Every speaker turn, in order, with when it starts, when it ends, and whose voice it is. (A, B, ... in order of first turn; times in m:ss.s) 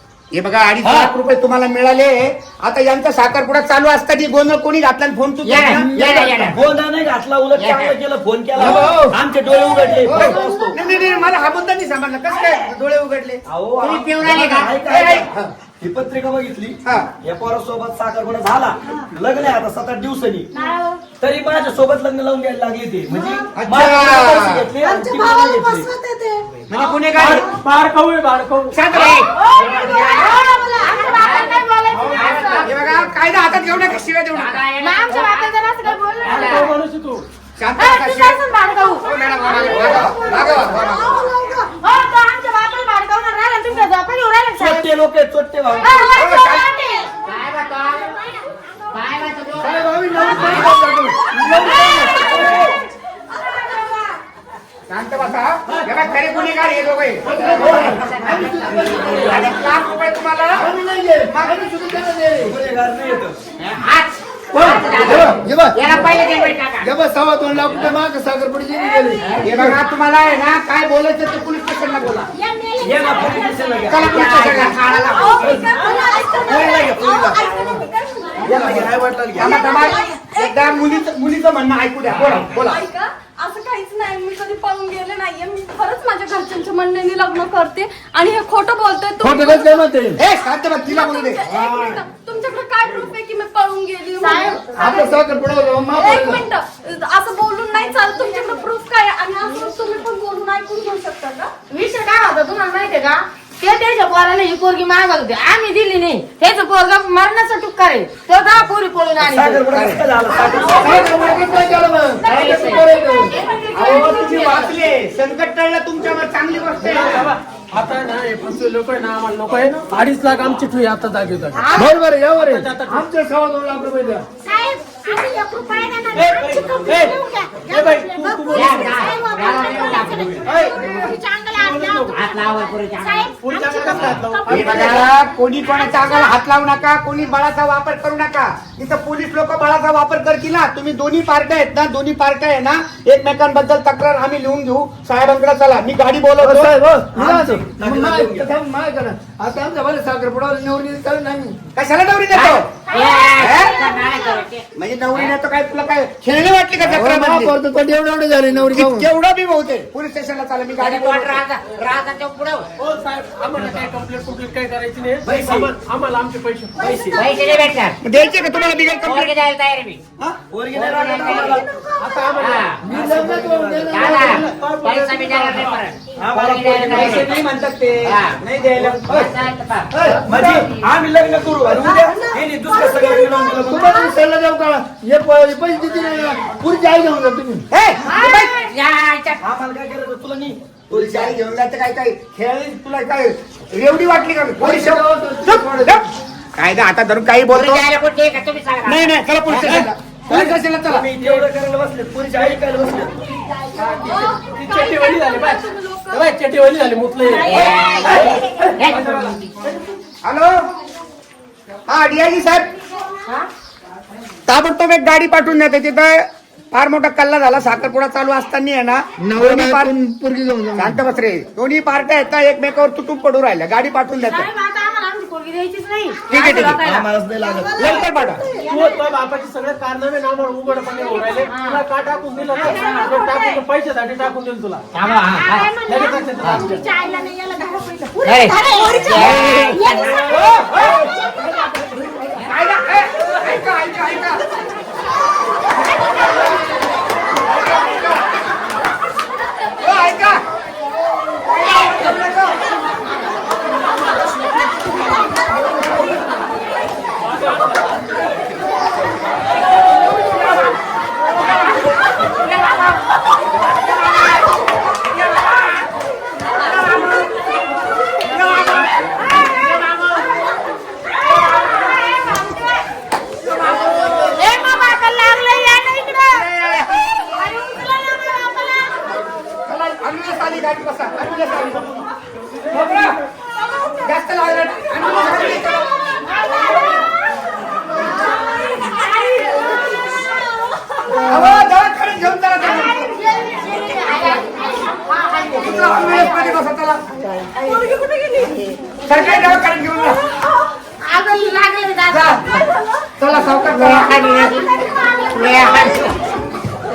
0:00.3-0:06.6 A
0:00.8-0:01.1 B
0:05.4-0:06.6 C
0:05.8-0:06.5 D
0:06.6-0:10.8 B
0:07.6-0:07.9 C
0:08.6-0:09.2 D
0:10.0-0:13.4 A
0:13.5-0:15.3 B
0:13.8-0:14.8 C
0:14.8-0:15.3 A
0:15.8-0:20.5 B
0:20.6-0:21.0 E
0:21.2-0:25.9 B
0:23.1-0:23.5 E
0:23.5-0:24.7 A
0:24.8-0:26.5 E
0:26.7-0:27.5 A
0:27.2-0:28.8 F
0:28.7-0:29.3 A
0:28.9-0:30.4 C
0:29.3-0:32.7 E
0:30.1-0:30.4 A
0:30.8-0:31.1 G
0:31.1-0:32.9 C
0:31.9-0:32.4 F
0:32.6-0:34.7 A
0:34.3-0:36.7 C
0:34.8-0:36.5 E
0:35.1-0:36.1 G
0:36.2-0:37.2 F
0:37.6-0:38.4 A
0:37.8-0:39.0 G
0:39.0-0:41.1 A
0:39.4-0:43.1 E
0:39.6-0:40.2 B
0:41.8-0:44.9 G
0:43.7-0:44.5 E
0:44.6-0:46.1 B
0:45.8-0:47.2 E
0:46.1-0:46.7 A
0:47.3-0:48.2 C
0:48.1-0:48.4 E
0:48.9-0:50.8 C
0:49.6-0:52.7 D
0:51.6-0:52.6 H
0:51.6-0:52.5 E
0:53.5-0:54.0 E
0:54.9-0:57.5 A
0:57.2-0:59.5 D
0:57.4-0:59.8 C
0:57.6-0:58.0 B
0:58.6-0:59.2 B
0:59.1-1:00.7 A
1:00.6-1:02.6 D
1:01.3-1:01.6 A
1:02.4-1:03.4 B
1:03.6-1:06.9 C
1:04.5-1:06.1 D
1:06.8-1:09.8 D
1:09.2-1:09.5 C
1:09.4-1:12.3 A
1:12.3-1:15.2 E
1:12.8-1:14.2 B
1:13.9-1:15.6 A
1:14.0-1:15.7 C
1:15.1-1:18.4 H
1:15.4-1:15.7 B
1:15.7-1:18.7 E
1:16.4-1:17.4 B
1:18.4-1:18.9 D
1:18.4-1:19.6 B
1:19.4-1:22.8 A
1:19.4-1:20.3 E
1:19.6-1:21.1 H
1:22.1-1:22.6 C
1:22.6-1:29.8 H
1:29.2-1:30.2 D
1:30.2-1:32.0 A
1:30.8-1:35.1 H
1:34.2-1:35.0 G
1:34.8-1:36.4 D
1:36.0-1:41.5 H
1:41.7-1:49.7 G
1:49.2-1:51.1 B
1:49.7-1:50.0 A
1:50.4-1:54.7 H
1:50.8-1:53.4 D
1:50.8-1:51.3 A
1:52.4-1:52.8 G
1:53.7-1:57.3 A
1:56.8-2:01.8 F
2:01.6-2:01.9 G
2:01.8-2:04.2 D
2:02.4-2:03.0 F
2:04.4-2:15.0 E
2:06.1-2:08.9 F
2:08.5-2:11.2 C
2:11.6-2:12.1 F
2:12.1-2:13.3 C
2:13.4-2:15.0 F
2:14.5-2:26.7 A
2:14.7-2:15.0 C
2:15.6-2:16.4 E
2:26.4-2:28.5 B
2:26.4-2:31.6 D
2:31.8-2:32.7 A
2:32.3-2:35.4 C
2:32.8-2:34.5 E
2:33.4-2:33.8 A
2:34.8-2:37.5 A
2:36.8-2:39.1 D
2:38.7-2:41.4 A
2:40.8-2:42.6 C
2:42.8-2:47.2 F
2:45.2-2:45.7 B
2:46.8-2:47.2 B
2:46.9-2:47.7 E
2:47.2-2:48.0 C
2:48.0-2:49.4 A
2:49.0-2:50.0 C
2:50.5-2:51.7 B
2:50.7-2:51.6 C
2:51.3-2:52.4 E
2:52.0-2:52.7 F
2:52.4-2:52.8 C
2:52.8-2:54.1 B
2:52.8-2:54.4 D
2:53.9-2:58.4 C
2:54.1-2:55.8 F
2:56.2-2:57.4 B
2:56.9-2:59.3 A
2:58.7-2:59.2 B
2:59.1-3:00.9 C
2:59.9-3:00.3 D
3:00.3-3:04.1 B
3:00.3-3:00.6 A
3:01.7-3:04.1 E
3:03.6-3:07.6 D
3:07.7-3:08.6 A
3:08.0-3:08.4 E
3:08.5-3:09.4 C
3:09.4-3:11.4 B
3:10.9-3:16.0 A
3:14.6-3:16.1 D
3:16.6-3:17.8 A
3:17.5-3:19.1 C
3:18.8-3:21.1 A
3:19.5-3:23.2 B
3:23.8-3:27.8 F
3:24.0-3:26.3 H
3:27.3-3:28.7 E
3:27.4-3:29.3 C
3:28.0-3:29.4 B
3:30.2-3:30.5 A
3:31.9-3:32.7 A
3:34.5-3:36.2 A
3:36.7-3:39.9 A
3:39.2-3:41.0 D
3:40.8-3:44.5 A
3:44.2-3:47.1 G
3:46.3-3:46.8 A
3:46.4-3:46.7 C
3:46.8-3:47.9 B
3:47.4-3:49.0 E
3:47.8-3:48.4 A
3:48.6-3:54.8 F
3:51.4-3:51.8 G
3:52.7-3:53.5 E
3:52.7-3:53.0 G
3:54.9-3:55.7 C
3:55.0-4:02.4 E
3:55.9-3:56.9 F
3:58.2-4:00.2 C
3:59.2-3:59.6 A
4:00.2-4:01.1 A
4:02.4-4:04.4 A
4:07.4-4:08.2 A
4:09.8-4:10.4 A
4:11.5-4:12.6 A
4:28.4-4:28.8 E
4:33.7-4:34.3 A
4:34.2-4:36.4 E
4:36.3-4:37.0 A
4:37.3-4:38.9 E
4:39.7-4:41.9 A
4:42.7-4:43.2 A
4:44.0-4:45.9 A
4:46.3-4:47.1 E
4:48.1-4:51.5 E
4:51.2-4:53.2 A
4:52.6-4:56.6 E
4:55.2-4:55.6 G
4:55.6-4:57.0 A
4:57.4-4:58.8 E
4:57.6-4:58.5 H
4:59.1-5:00.2 A
5:00.9-5:02.4 E
5:02.1-5:02.5 A
5:03.2-5:04.2 A
5:03.6-5:06.2 C
5:04.4-5:06.2 E